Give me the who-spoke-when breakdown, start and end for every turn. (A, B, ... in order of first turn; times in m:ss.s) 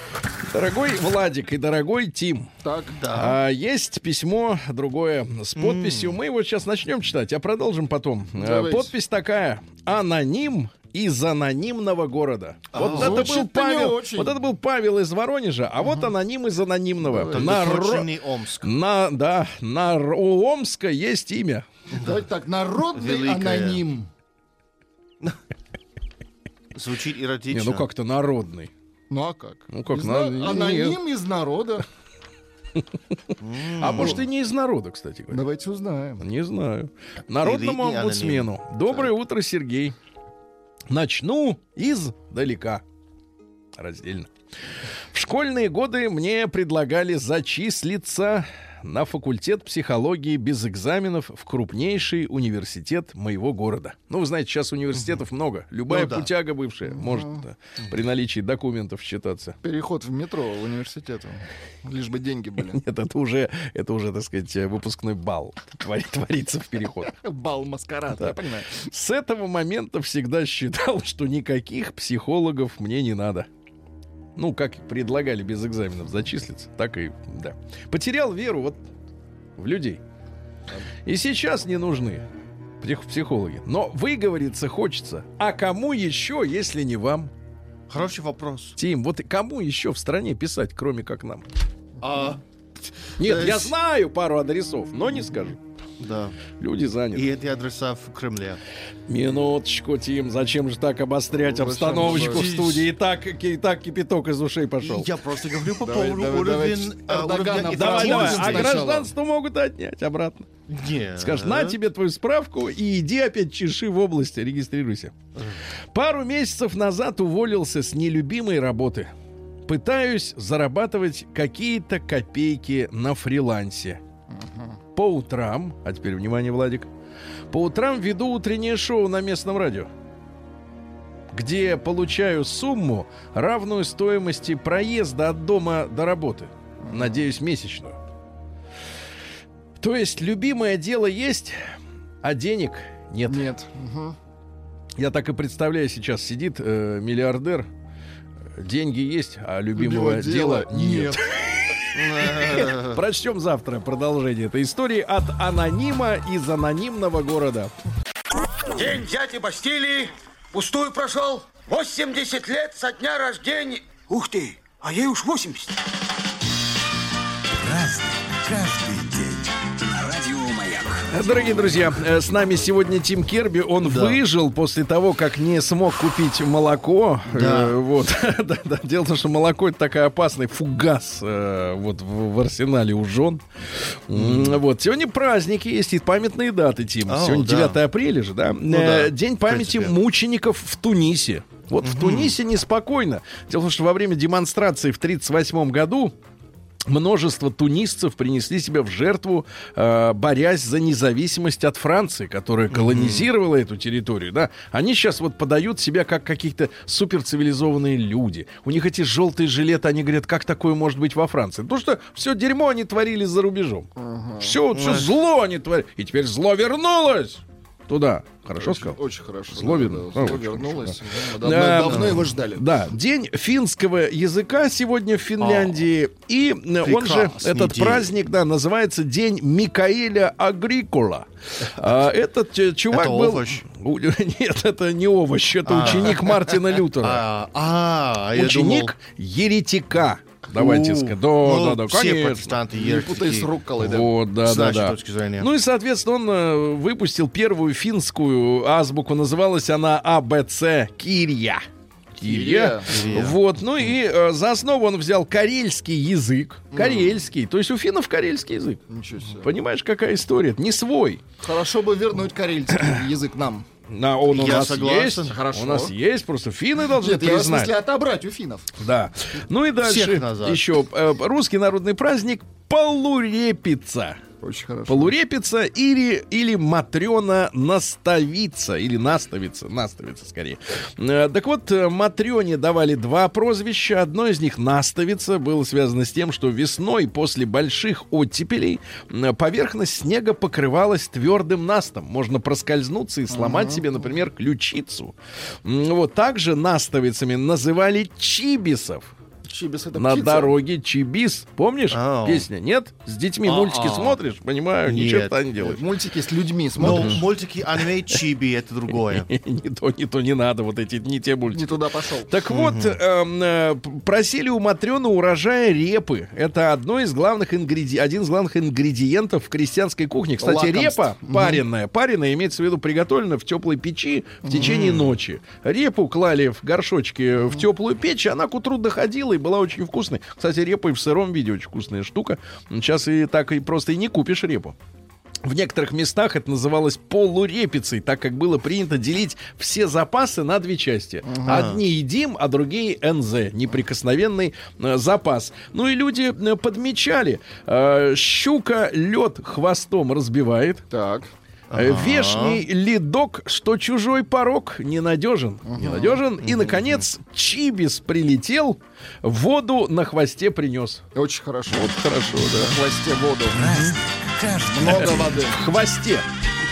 0:00.5-0:02.5 A
0:02.6-0:03.0 B
0:03.0-0:03.4 C
0:03.1-0:18.1 A
0:05.6-0:06.2 C
0:08.4-0:08.9 B
0:12.7-0:13.3 C
0:12.8-0:14.4 B
0:15.8-0:16.1 B
0:17.0-0:17.9 B
0:17.3-0:18.7 C
0:18.6-0:21.7 A
0:21.9-0:22.2 C
0:22.0-0:24.1 B
0:22.9-0:23.8 C
0:26.7-0:27.8 C
0:27.5-0:28.7 A
0:29.1-0:31.8 B
0:29.7-0:31.0 A
0:33.4-0:34.2 C
0:33.8-0:35.4 A
0:35.3-0:36.2 B
0:36.2-0:40.0 A
0:37.4-0:39.1 C
0:40.9-0:42.8 A
0:43.8-0:44.3 A
0:45.1-0:59.6 A
0:54.9-0:55.2 C
0:55.9-0:56.3 C
0:56.9-0:57.4 B
0:59.6-1:02.8 B
1:02.7-1:07.1 A
1:07.1-1:08.8 B
1:08.1-1:13.5 A
1:14.4-1:18.8 A
1:19.6-1:20.0 A
1:21.0-1:22.2 A
1:22.8-1:27.3 A
1:27.9-1:28.8 C
1:28.8-1:31.4 A
1:32.0-1:32.4 C
1:33.2-1:33.7 C
1:33.2-1:35.6 A
1:36.0-1:36.4 C
1:36.6-1:37.3 A
1:37.1-1:38.6 C
1:39.1-1:45.1 A
1:41.4-1:42.5 B
1:42.0-1:42.9 C
1:44.8-1:48.8 C
1:45.8-1:49.1 B
1:47.7-1:50.5 A
1:50.7-1:51.8 C
1:51.2-1:55.1 A
1:55.3-1:55.6 C
1:55.9-1:59.1 A
1:59.7-2:04.0 A
2:04.3-2:04.7 B
2:05.0-2:06.9 A
2:07.5-2:09.9 A
2:11.3-2:18.0 A
2:16.8-2:17.2 B
2:19.8-2:21.6 A
2:22.2-2:23.4 A
2:23.3-2:24.2 B
2:25.0-2:27.7 A
2:28.6-2:31.2 A
2:29.8-2:31.3 B
2:31.9-2:33.0 C
2:32.2-2:37.7 A
2:38.7-2:45.8 D
2:47.6-2:48.0 E
2:48.6-2:49.1 E
2:49.1-2:51.0 D
2:51.1-3:03.4 A
2:53.8-2:54.2 C
2:57.3-2:57.7 C
3:04.1-3:16.1 A
3:04.1-3:04.6 C
3:07.0-3:07.8 C
3:08.7-3:09.9 C
3:11.8-3:12.4 C
3:16.9-3:39.0 A
3:22.7-3:23.3 C
3:34.0-3:34.6 B
3:34.7-3:35.1 C
3:38.6-3:42.6 B
3:39.5-3:40.9 A
3:41.4-3:57.2 A
3:41.8-3:42.2 C
3:45.4-3:45.8 C
3:46.8-3:48.1 C
3:52.9-3:53.6 C
3:55.6-3:58.9 C
3:58.3-4:02.5 A
4:00.5-4:05.5 C
4:02.7-4:04.1 B
4:03.8-4:11.6 A
4:12.2-4:18.8 A
4:12.2-4:13.0 B
4:12.9-4:13.4 C
4:16.8-4:17.1 B
4:18.9-4:19.5 B
4:19.4-4:21.2 A
4:21.4-4:23.6 B
4:23.9-4:27.7 A
4:24.3-4:25.4 C
4:25.2-4:25.9 B
4:26.8-4:28.7 B
4:28.8-4:34.2 A
4:29.8-4:30.6 C
4:34.4-4:35.1 B
4:34.9-4:55.1 A
4:53.3-4:53.8 B
4:55.6-4:59.1 A
4:59.4-5:00.6 B
5:00.0-5:05.8 A
5:01.9-5:02.5 C
5:03.4-5:04.2 C
5:04.8-5:05.4 C
5:05.6-5:07.2 B
5:06.8-5:09.3 C
5:06.8-5:07.2 A
5:09.1-5:11.8 A
5:11.5-5:12.3 B
5:12.3-5:34.7 A
5:12.5-5:13.0 C
5:20.4-5:21.6 B
5:24.5-5:25.2 C
5:35.4-5:50.8 A
5:41.2-5:41.7 B
5:41.4-5:41.8 C
5:50.9-5:51.3 B
5:51.7-5:52.6 C
5:51.8-6:01.0 A
5:55.7-5:56.2 B
5:56.4-5:57.1 C
6:01.1-6:04.0 B
6:01.7-6:02.7 A
6:03.6-6:05.1 E
6:04.7-6:05.6 B
6:04.8-6:06.2 A